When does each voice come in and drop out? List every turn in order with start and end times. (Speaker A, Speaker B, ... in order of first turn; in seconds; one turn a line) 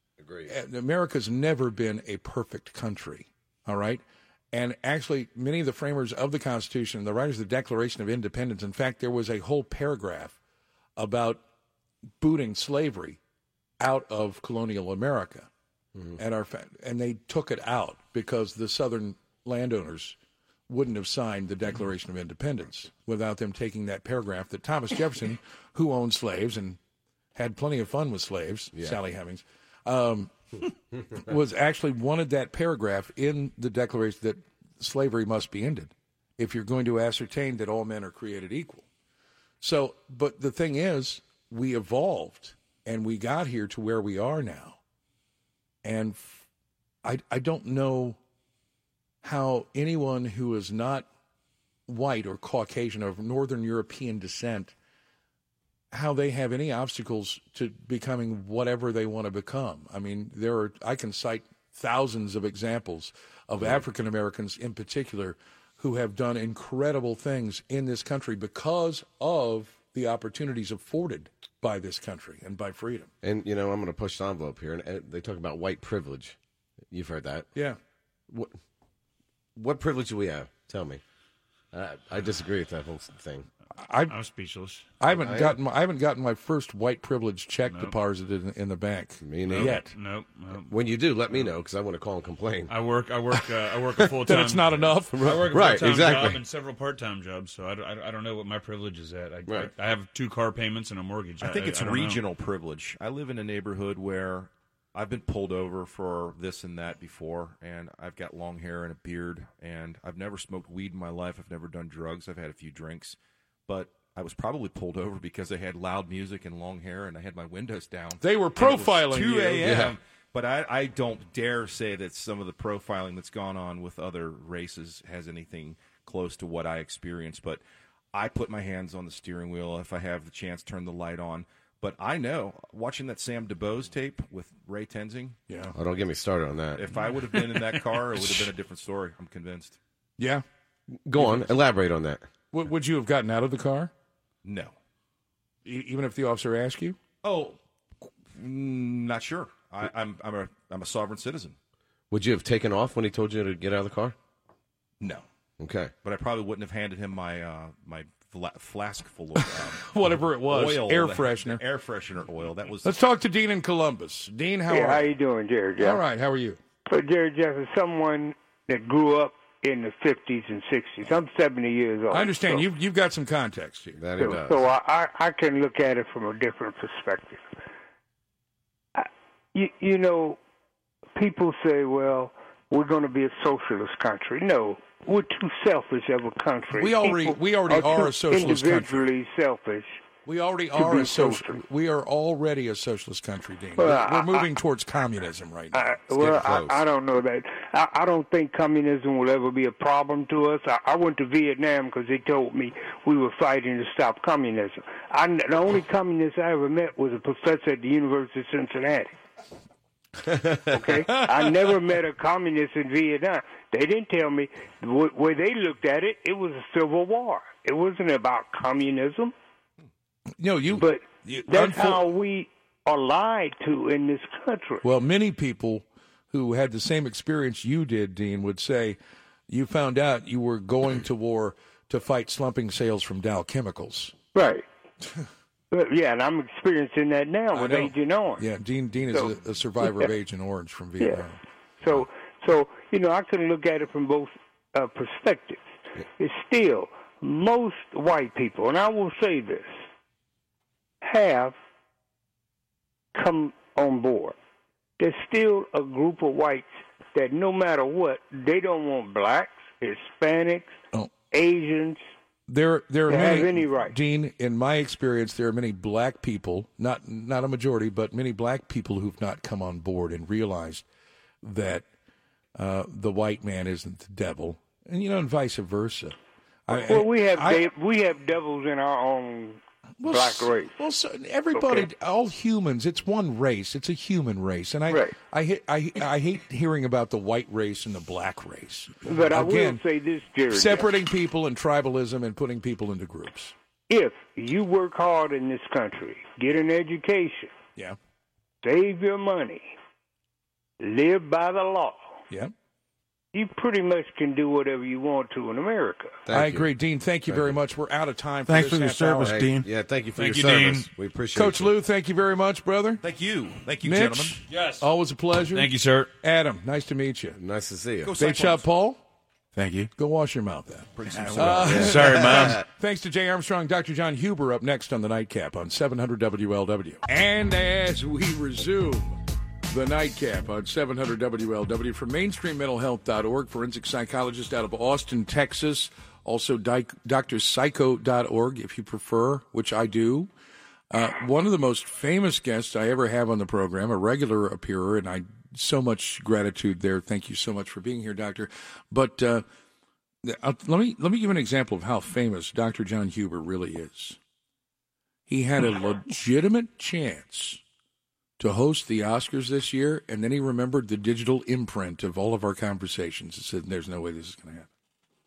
Speaker A: 0.2-0.5
Speaker B: 0.5-10.4
Speaker B: 11.0-11.4
Speaker B: 12.2-13.2
Speaker B: 13.8-15.5
Speaker A: 15.9-16.2
Speaker B: 16.2-20.2
Speaker B: 20.7-26.8
Speaker B: 27.4-30.3
Speaker B: 31.2-38.9
Speaker B: 39.6-44.8
Speaker B: 45.8-46.4
Speaker B: 47.0-48.2
Speaker B: 49.2-51.1
Speaker B: 51.9-54.7
Speaker B: 55.9-73.1
Speaker A: 63.6-63.8
Speaker A: 73.2-76.4
Speaker A: 76.9-77.5
Speaker A: 78.3-78.6
Speaker A: 79.6-81.0
Speaker A: 81.7-83.5
Speaker B: 83.8-84.1
Speaker C: 84.1-85.0
Speaker B: 85.0-89.9
Speaker A: 85.1-85.6
Speaker C: 87.7-87.9
Speaker A: 89.2-89.8
Speaker C: 89.5-90.8
Speaker A: 90.7-92.7
Speaker C: 92.7-102.2
Speaker B: 94.2-95.2
Speaker A: 95.1-96.4
Speaker A: 99.5-99.7
Speaker D: 101.4-127.6
Speaker B: 118.2-119.9
Speaker A: 119.6-119.9
Speaker D: 128.1-135.4
Speaker A: 135.7-136.8
Speaker D: 136.8-139.8
Speaker B: 140.2-140.4
Speaker A: 141.1-142.3
Speaker B: 141.2-141.5
Speaker B: 142.5-143.9
Speaker D: 144.4-144.8
Speaker B: 145.7-147.0
Speaker D: 147.2-147.6
Speaker D: 148.3-151.6
Speaker A: 152.1-154.2
Speaker A: 155.6-155.9
Speaker D: 156.0-159.9
Speaker B: 159.4-161.6
Speaker D: 160.4-162.9
Speaker B: 162.8-165.1
Speaker E: 164.7-166.0
Speaker B: 165.8-166.6
Speaker E: 166.9-172.7
Speaker B: 172.1-174.0
Speaker A: 174.0-174.6
Speaker E: 174.2-177.4
Speaker E: 179.0-180.4
Speaker E: 181.2-190.0
Speaker B: 186.7-189.1
Speaker B: 190.3-196.1
Speaker E: 190.7-191.6
Speaker E: 193.8-194.5
Speaker E: 195.7-209.1
Speaker A: 196.2-196.8
Speaker E: 210.7-219.3
Speaker B: 211.1-211.5
Speaker B: 220.4-222.1
Speaker E: 220.8-224.8
Speaker B: 224.8-229.0
Speaker B: 229.5-234.1
Speaker E: 234.3-234.7
Speaker E: 235.7-238.5
Speaker B: 237.5-241.4
Speaker E: 239.1-240.1
Speaker E: 241.8-249.8
Speaker E: 251.0-251.6
Speaker E: 253.1-254.4
Speaker E: 255.0-260.8
Speaker E: 261.3-262.0
Speaker B: 262.5-270.9
Speaker E: 263.1-264.0
Speaker B: 271.4-271.9
Speaker B: 272.6-276.2
Speaker B: 276.7-277.7
Speaker E: 276.7-280.8
Speaker B: 280.0-289.8
Speaker E: 281.6-281.9
Speaker E: 284.9-285.2
Speaker E: 289.1-290.9
Speaker B: 290.5-293.5
Speaker E: 293.9-297.6
Speaker E: 298.6-299.7
Speaker E: 300.8-302.1
Speaker E: 303.3-306.2
Speaker A: 306.3-306.7
Speaker B: 306.3-309.4
Speaker A: 307.3-307.6
Speaker A: 309.0-311.8
Speaker C: 310.2-310.9
Speaker B: 311.3-313.0
Speaker D: 313.0-314.4
Speaker B: 313.8-315.7
Speaker C: 314.5-314.9
Speaker C: 315.5-316.1
Speaker B: 316.2-317.4
Speaker A: 317.4-318.1
Speaker D: 318.1-318.7
Speaker B: 318.2-319.0
Speaker B: 319.9-329.2
Speaker D: 321.0-322.4
Speaker A: 321.4-322.7
Speaker C: 321.8-322.6
Speaker B: 329.7-340.3
Speaker B: 340.9-349.4
Speaker B: 350.2-354.2
Speaker B: 355.3-357.6
Speaker B: 358.4-364.7